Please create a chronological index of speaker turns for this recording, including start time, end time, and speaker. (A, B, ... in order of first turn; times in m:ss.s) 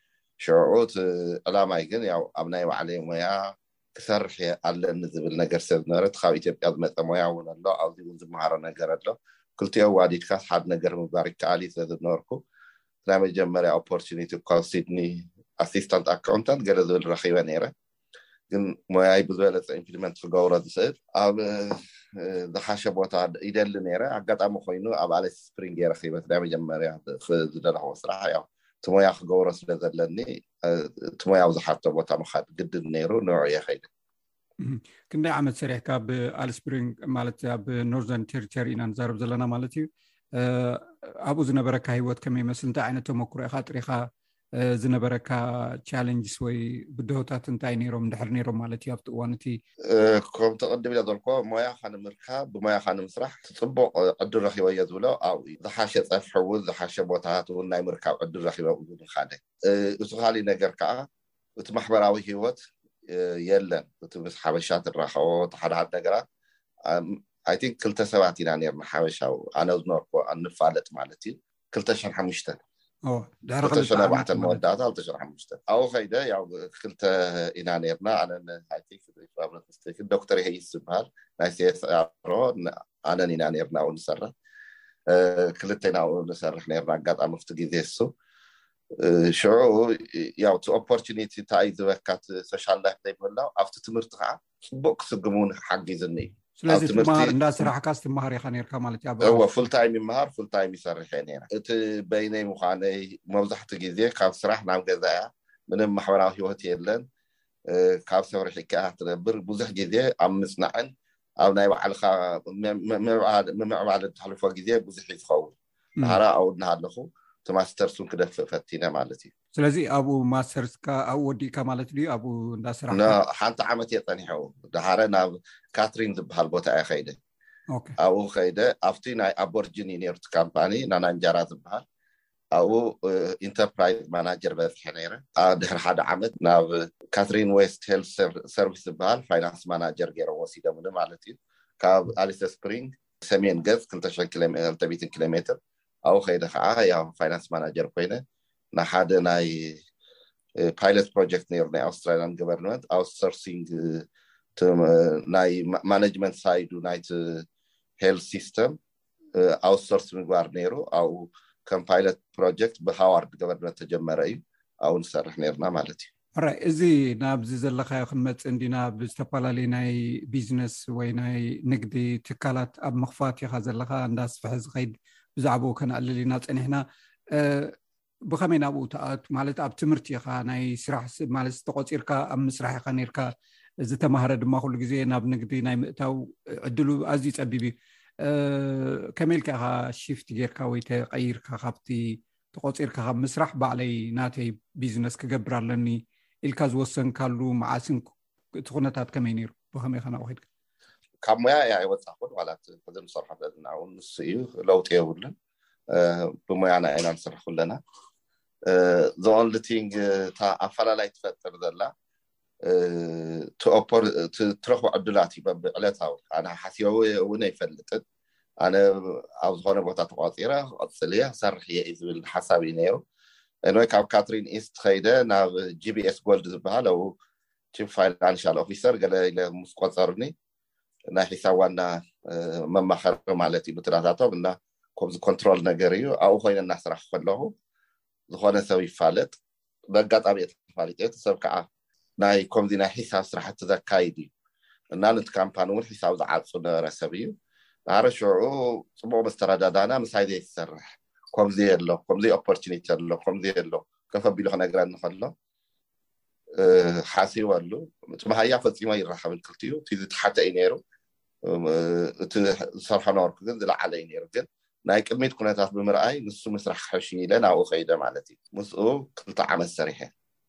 0:00.4-0:12.4 A
0:13.1-0:17.7 A
0:18.5-0:33.9 A
0:34.6-0:49.6 B
0:49.9-1:01.1 A
1:01.6-1:02.6 A
1:03.1-1:06.2 A
1:06.9-1:12.6 A
1:13.1-1:14.6 B
1:13.6-1:24.3 A
1:25.1-1:28.1 A
1:29.0-1:37.7 A
1:36.6-1:39.5 B
1:39.2-1:47.0 A
1:47.7-1:59.3 A
1:59.6-2:03.2 B
2:02.9-2:07.2 A
2:08.0-2:11.8 A
2:12.5-2:28.2 A
2:28.7-2:29.8 A
2:30.6-2:37.4 A
2:38.0-2:38.8 A
2:39.4-2:46.1 A
2:46.4-2:57.7 B
2:58.3-3:03.3 B
3:03.8-3:18.0 B
3:18.6-3:20.4 B
3:21.2-3:25.3 A
3:25.9-3:27.8 A
3:28.7-3:31.9 A
3:32.6-3:38.0 A
3:38.6-3:43.0 A
3:43.7-3:47.1 A
3:47.7-3:50.3 A
3:51.1-3:57.5 A
3:58.3-3:59.4 A
3:59.9-4:01.7 A
4:02.2-4:04.3 A
4:04.9-4:07.3 A
4:07.9-4:15.3 A
4:16.6-4:20.8 A
4:21.4-4:30.1 A